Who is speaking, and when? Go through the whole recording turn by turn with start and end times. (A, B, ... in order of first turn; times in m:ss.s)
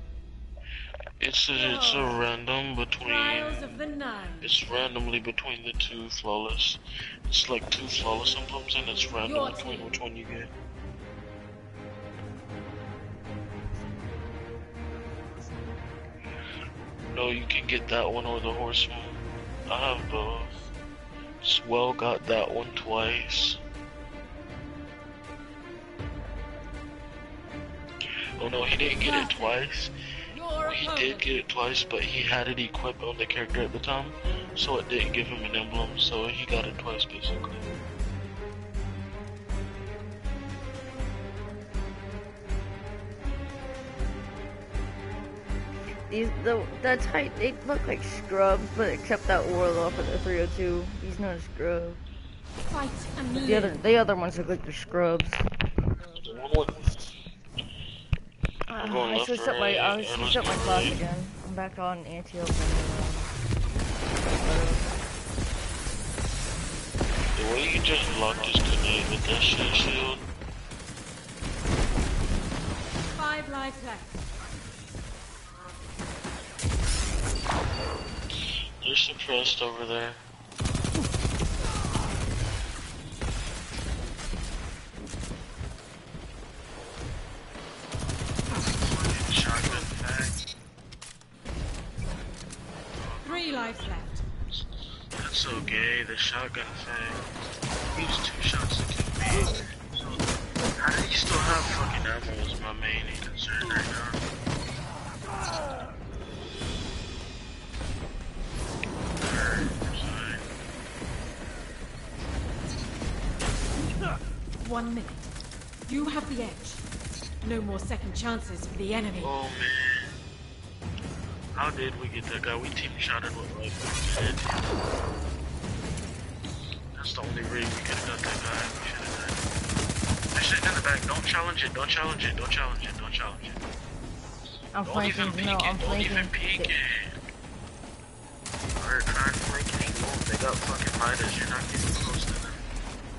0:01.2-0:03.8 A
0:01.6-0:02.2 B
0:03.0-0:04.5 B
0:04.4-0:10.5 A
0:09.2-0:10.0 B
0:17.1-0:20.6 A
0:21.4-0:23.6 A
0:28.4-0:29.9 A
0:29.0-0:29.6 B
0:30.3-0:31.2 B
0:30.6-0:37.7 A
0:46.1-0:52.0 C
0:52.7-0:53.8 B
0:53.4-0:55.4 C
0:56.2-0:57.0 A
0:58.7-1:03.3 C
0:58.8-1:01.0 A
1:04.2-1:04.9 C
1:07.3-1:10.2 A
1:13.1-1:14.2 B
1:18.8-1:20.2 A
1:28.7-1:30.4 A
1:32.9-1:34.0 A
1:33.2-1:34.2 B
1:35.2-1:37.3 A
1:37.9-1:40.3 A
1:40.8-1:44.2 A
1:49.2-1:50.4 A
1:54.6-1:55.3 B
1:55.9-1:56.8 B
1:57.4-1:59.3 B
1:59.2-2:00.2 A
2:01.6-2:04.8 A
2:07.0-2:09.4 A
2:10.3-2:13.6 A
2:14.7-2:16.7 C
2:14.8-2:17.2 A
2:18.8-2:22.6 A